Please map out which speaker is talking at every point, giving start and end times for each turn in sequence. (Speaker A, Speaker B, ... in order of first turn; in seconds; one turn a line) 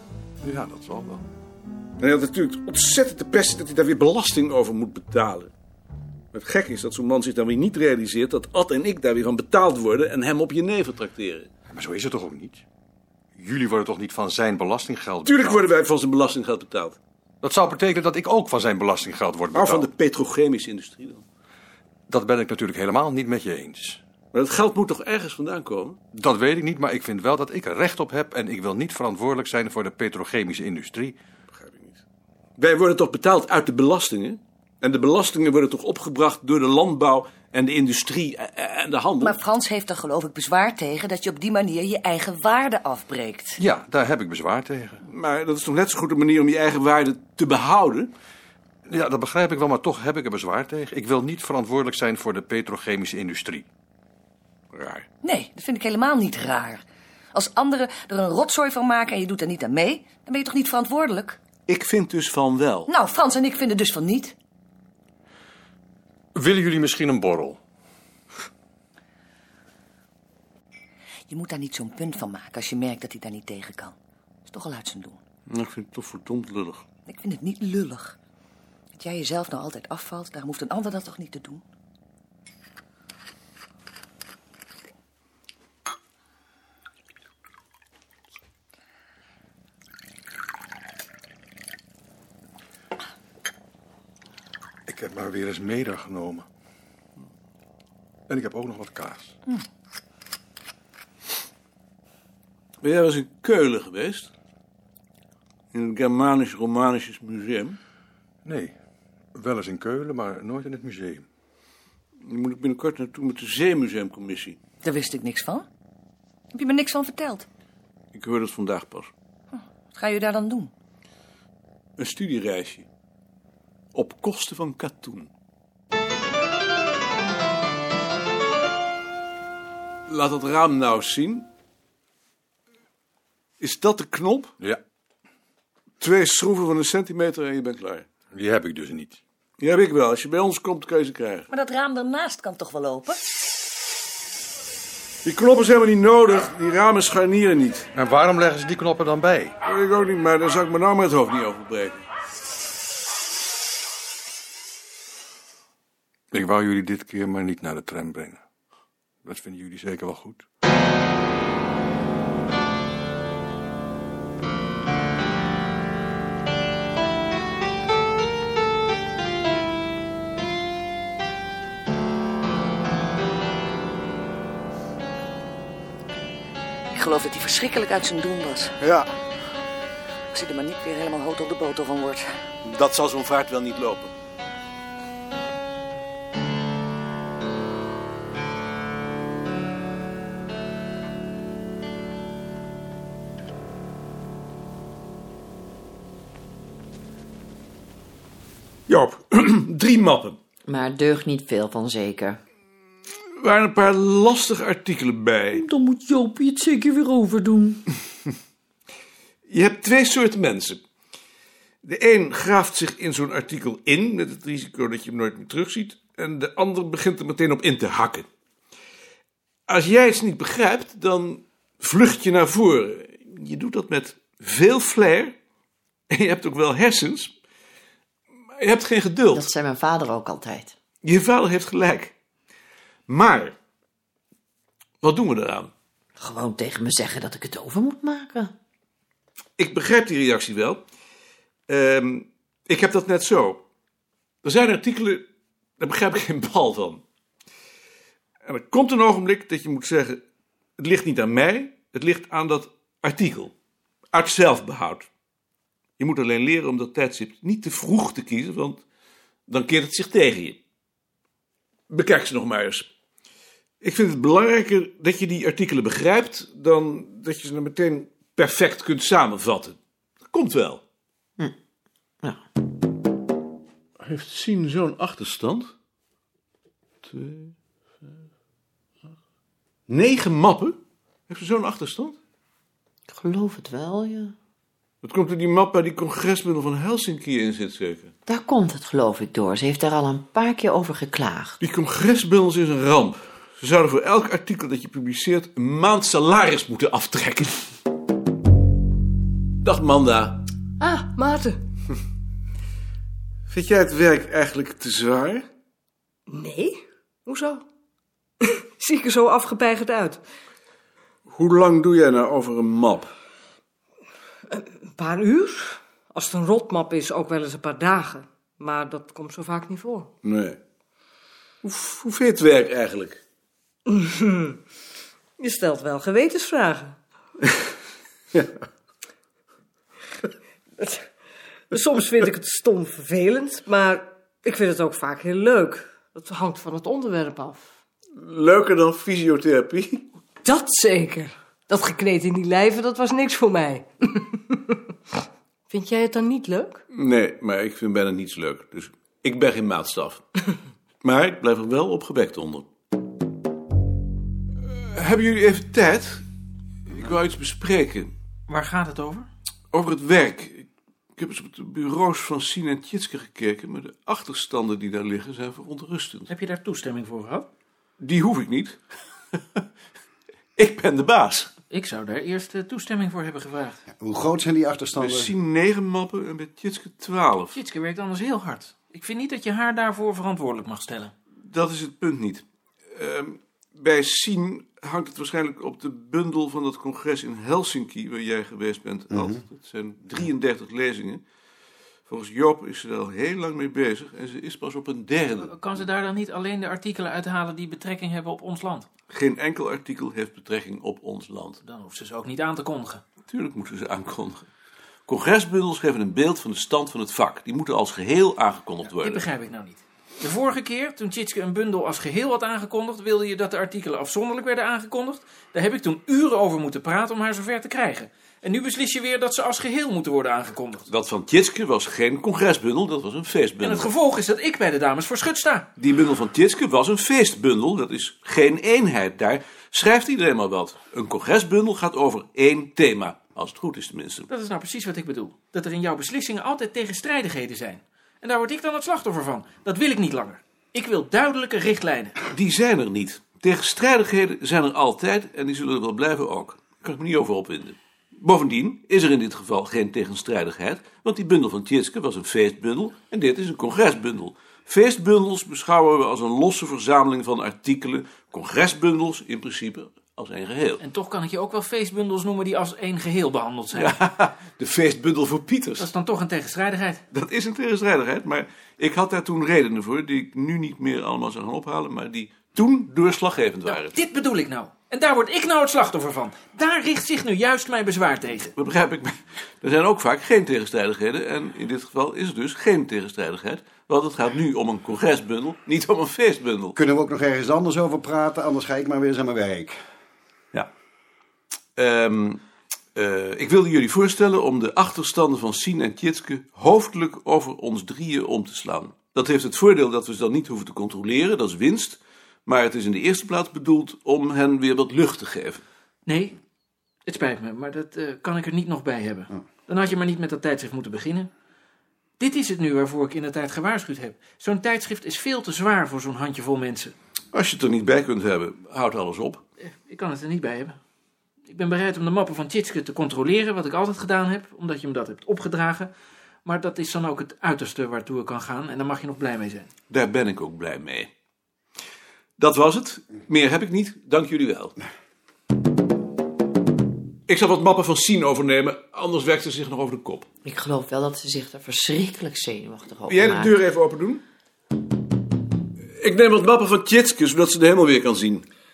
Speaker A: 0.4-1.2
Speaker B: 2.0-5.5
Speaker B: 6.3-11.5
Speaker A: 11.7-12.6
Speaker A: 13.4-15.7
Speaker B: 15.2-17.0
Speaker A: 17.4-19.9
Speaker B: 19.5-21.2
Speaker A: 22.1-24.0
Speaker B: 24.3-26.0
Speaker A: 26.1-31.2
Speaker B: 31.5-32.0
Speaker B: 32.6-39.4
Speaker C: 39.2-43.6
Speaker A: 43.6-45.0
Speaker B: 45.1-48.1
Speaker A: 48.9-53.7
Speaker B: 54.7-55.1
Speaker C: 55.2-56.8
Speaker C: 57.3-61.4
Speaker B: 61.7-62.9
Speaker C: 62.9-64.3
Speaker A: 66.3-67.6
Speaker C: 71.3-73.9
Speaker C: 74.5-75.2
Speaker B: 75.5-76.8
Speaker C: 77.1-78.2
Speaker C: 79.0-81.6
Speaker A: 94.9-96.5
Speaker A: 98.3-99.4
Speaker B: 102.8-104.3
Speaker B: 105.7-107.8
Speaker A: 108.4-108.8
Speaker A: 109.3-111.2
Speaker B: 112.2-114.6
Speaker C: 114.8-115.7
Speaker C: 116.5-117.5
Speaker B: 118.1-119.1
Speaker C: 119.5-120.7
Speaker B: 122.0-122.9
Speaker B: 123.9-125.3
Speaker B: 130.1-131.5
Speaker B: 133.6-134.5
Speaker B: 136.0-138.1
Speaker A: 138.3-139.2
Speaker B: 139.6-141.5
Speaker C: 141.5-143.2
Speaker B: 145.2-147.9
Speaker A: 147.9-149.6
Speaker B: 149.6-152.1
Speaker A: 156.3-158.4
Speaker A: 159.2-160.4
Speaker C: 176.9-178.7
Speaker B: 178.8-179.1
Speaker C: 180.3-182.3
Speaker B: 182.6-184.1
Speaker B: 198.9-200.4
Speaker D: 200.7-202.4
Speaker B: 203.4-205.7
Speaker D: 205.6-207.8
Speaker B: 209.5-210.8
Speaker B: 211.8-218.3
Speaker B: 219.7-225.3
Speaker B: 226.1-227.3
Speaker B: 228.6-229.5
Speaker D: 229.3-230.8
Speaker B: 231.0-232.1
Speaker B: 233.1-233.6
Speaker B: 235.0-235.7
Speaker D: 236.2-238.5
Speaker B: 239.6-240.8
Speaker B: 241.7-243.6
Speaker B: 244.4-245.2
Speaker B: 245.8-247.0
Speaker B: 248.5-250.2
Speaker B: 250.8-253.5
Speaker B: 254.1-255.1
Speaker B: 256.0-258.8
Speaker B: 259.5-260.6
Speaker B: 261.9-262.9
Speaker B: 263.8-269.8
Speaker B: 270.3-270.8
Speaker B: 274.0-275.7
Speaker B: 277.0-277.5
Speaker B: 279.9-280.8
Speaker B: 281.3-282.2
Speaker D: 283.1-284.4
Speaker B: 285.0-288.1
Speaker D: 288.3-291.6
Speaker B: 291.6-297.6
Speaker B: 299.6-300.4
Speaker E: 300.8-301.6
Speaker B: 303.5-305.4
Speaker E: 306.3-307.6
Speaker E: 308.4-310.2
Speaker B: 311.3-313.1
Speaker E: 314.5-320.1
Speaker B: 320.2-320.6
Speaker B: 321.6-323.2
Speaker E: 323.9-324.6
Speaker E: 325.4-327.0
Speaker E: 330.8-331.1
Speaker E: 331.7-337.7
Speaker B: 338.2-340.1
Speaker E: 340.4-344.8
Speaker E: 345.7-346.8
Speaker B: 346.9-350.2
Speaker B: 351.0-352.7
Speaker B: 354.9-356.2
Speaker B: 356.9-358.1
Speaker F: 358.5-359.3
Speaker B: 359.7-366.3
Speaker F: 366.3-367.5
Speaker B: 368.0-368.8
Speaker B: 370.6-371.5
Speaker F: 371.7-373.8
Speaker G: 374.0-375.4
Speaker B: 375.0-377.6
Speaker F: 377.5-381.1
Speaker B: 381.5-382.4
Speaker B: 382.9-391.2
Speaker G: 389.1-389.4
Speaker B: 392.1-395.5
Speaker F: 395.4-398.9
Speaker B: 399.1-401.6
Speaker F: 401.6-403.0
Speaker B: 403.3-404.5
Speaker B: 405.1-409.3
Speaker F: 408.9-420.9
Speaker B: 420.9-423.9
Speaker F: 423.6-425.7
Speaker B: 425.8-434.3
Speaker F: 434.3-442.2
Speaker B: 442.3-460.8
Speaker F: 460.8-464.0
Speaker B: 463.7-465.9
Speaker F: 465.8-467.0
Speaker B: 467.1-474.0
Speaker F: 473.7-478.5
Speaker B: 478.6-486.8
Speaker G: 486.8-489.8
Speaker B: 491.8-492.4
Speaker B: 492.9-505.6
Speaker F: 506.1-506.3
Speaker F: 507.1-511.3
Speaker F: 512.2-516.9
Speaker B: 517.3-519.4
Speaker F: 519.6-520.8
Speaker F: 521.5-525.9
Speaker F: 526.5-529.7
Speaker B: 529.9-531.1
Speaker B: 532.4-534.7
Speaker B: 537.3-540.3
Speaker D: 540.4-543.6
Speaker B: 543.1-544.2
Speaker B: 546.0-548.4